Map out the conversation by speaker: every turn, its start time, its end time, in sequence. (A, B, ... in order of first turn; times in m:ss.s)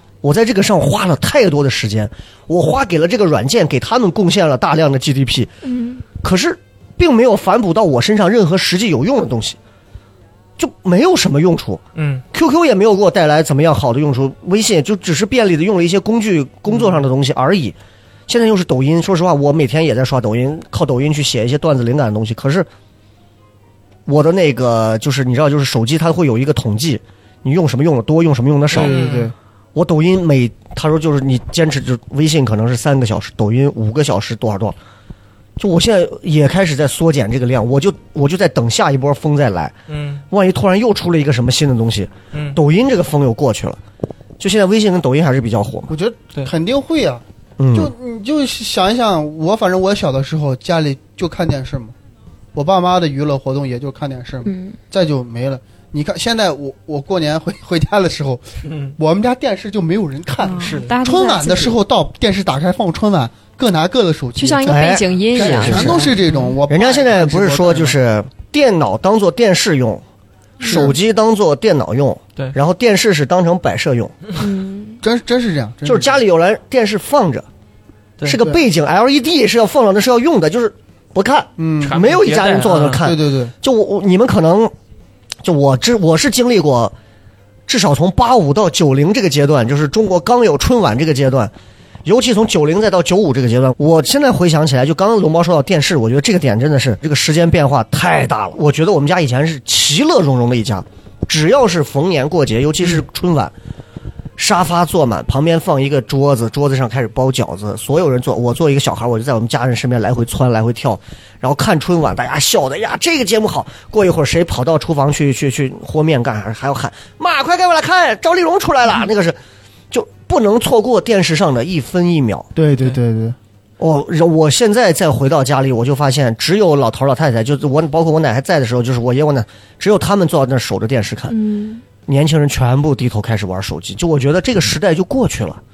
0:00.2-0:05.5 A
0:05.6-0:06.0 B
0:06.2-0:09.6 A
0:10.6-0:17.8 A
0:12.0-0:12.2 C
0:16.7-0:17.0 C
0:18.3-0:22.7 A
0:24.0-0:29.0 A
0:28.7-0:29.3 D
0:28.7-0:29.3 C
0:29.7-0:34.8 A
0:35.6-0:39.7 A
0:39.9-0:40.2 C
0:40.3-0:43.8 A
0:42.3-0:42.6 C
0:44.4-0:45.9 A
0:45.9-0:51.9 D
0:47.6-0:47.9 A
0:52.5-0:58.4 D
0:54.4-0:54.8 B
0:58.6-0:58.9 C
0:59.0-1:08.0 D
1:00.4-1:01.8 B
1:00.6-1:01.0 C
1:04.4-1:06.1 B
1:04.6-1:06.2 A
1:06.7-1:10.0 A
1:10.6-1:14.1 A
1:14.4-1:15.0 B
1:15.0-1:16.2 D
1:15.8-1:17.4 A
1:18.2-1:24.7 A
1:21.6-1:22.0 D
1:21.8-1:23.1 C
1:23.0-1:23.5 D
1:25.4-1:26.9 A
1:27.7-1:31.5 A
1:32.0-1:43.5 A
1:44.4-1:59.4 A
1:59.9-2:02.5 A
2:02.5-2:03.4 D
2:03.8-2:11.4 A
2:11.3-2:11.8 B
2:12.0-2:15.6 A